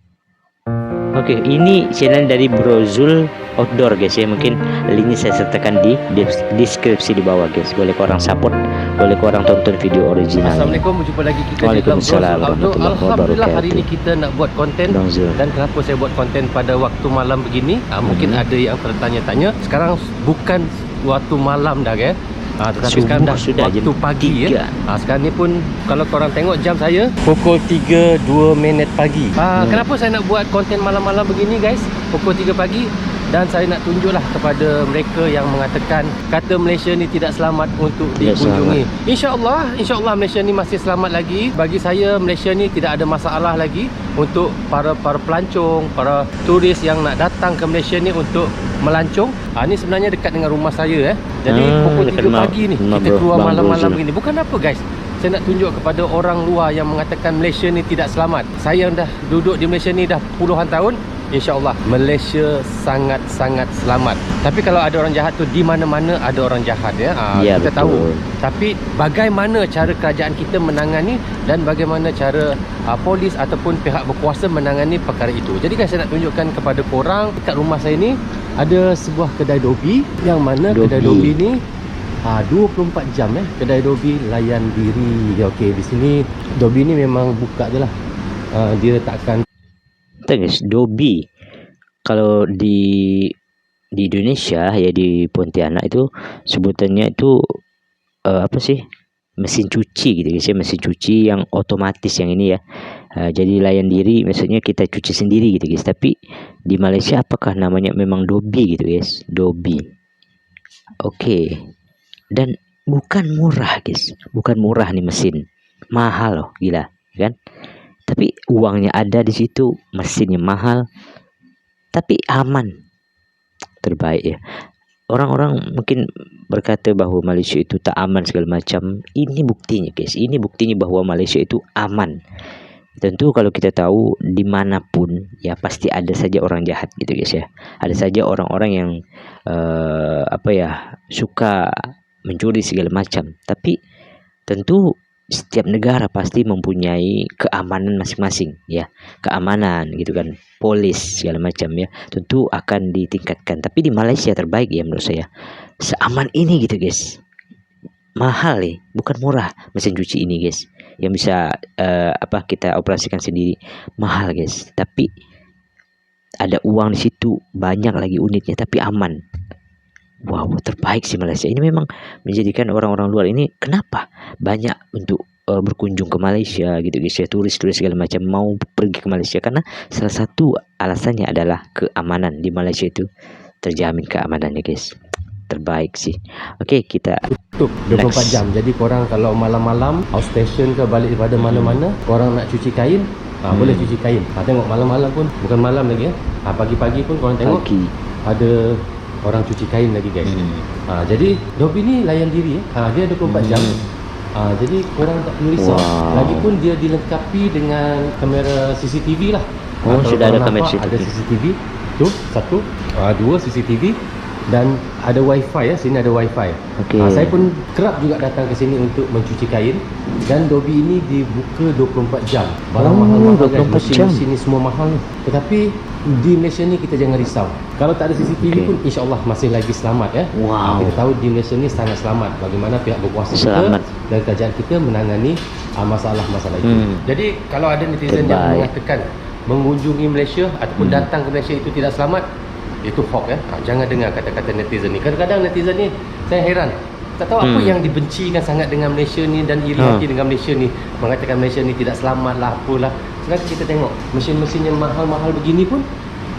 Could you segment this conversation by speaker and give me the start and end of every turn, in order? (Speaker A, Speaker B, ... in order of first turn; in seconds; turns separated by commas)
Speaker A: 1.2-10.8, Speaker B: 10.4-81.6, Speaker A: 11.6-13.8, Speaker A: 14.9-15.4, Speaker A: 18.1-18.4, Speaker A: 22.8-24.7, Speaker A: 29.6-29.8, Speaker A: 38.2-38.8, Speaker A: 51.5-54.0, Speaker A: 67.3-68.3, Speaker A: 80.7-81.3, Speaker B: 82.3-87.9, Speaker B: 88.5-89.4, Speaker A: 90.3-91.2, Speaker A: 92.1-93.3, Speaker A: 94.0-97.3, Speaker A: 98.3-98.8, Speaker A: 99.4-102.6, Speaker A: 103.2-106.2, Speaker A: 106.7-109.8, Speaker A: 111.0-111.7, Speaker A: 112.3-115.4, Speaker A: 116.0-117.3, Speaker A: 118.1-120.8, Speaker A: 122.0-122.7, Speaker A: 123.8-124.4, Speaker A: 125.1-126.0, Speaker A: 126.5-132.2, Speaker A: 133.0-138.9, Speaker A: 139.5-141.6, Speaker A: 142.3-143.8, Speaker A: 144.5-144.8, Speaker A: 145.4-155.3, Speaker A: 155.8-157.0, Speaker A: 158.2-165.1, Speaker A: 166.4-169.2, Speaker A: 170.3-183.1, Speaker A: 183.6-184.9, Speaker A: 185.5-187.2, Speaker B: 187.5-197.6, Speaker A: 187.9-188.4, Speaker A: 191.4-191.8, Speaker A: 193.5-193.9, Speaker A: 197.4-197.9, Speaker B: 198.3-198.6, Speaker B: 199.2-200.3, Speaker A: 200.3-200.7, Speaker B: 200.9-203.7, Speaker A: 203.2-203.9, Speaker B: 204.4-214.0, Speaker A: 205.6-206.5, Speaker A: 209.9-211.1, Speaker B: 214.5-242.2, Speaker A: 216.8-217.3, Speaker A: 222.8-224.2, Speaker A: 228.4-228.7, Speaker A: 230.3-231.0, Speaker A: 233.3-233.9, Speaker A: 236.6-237.1, Speaker A: 238.1-238.7, Speaker A: 240.8-241.1, Speaker B: 242.8-255.8, Speaker A: 247.4-247.8, Speaker A: 249.8-250.0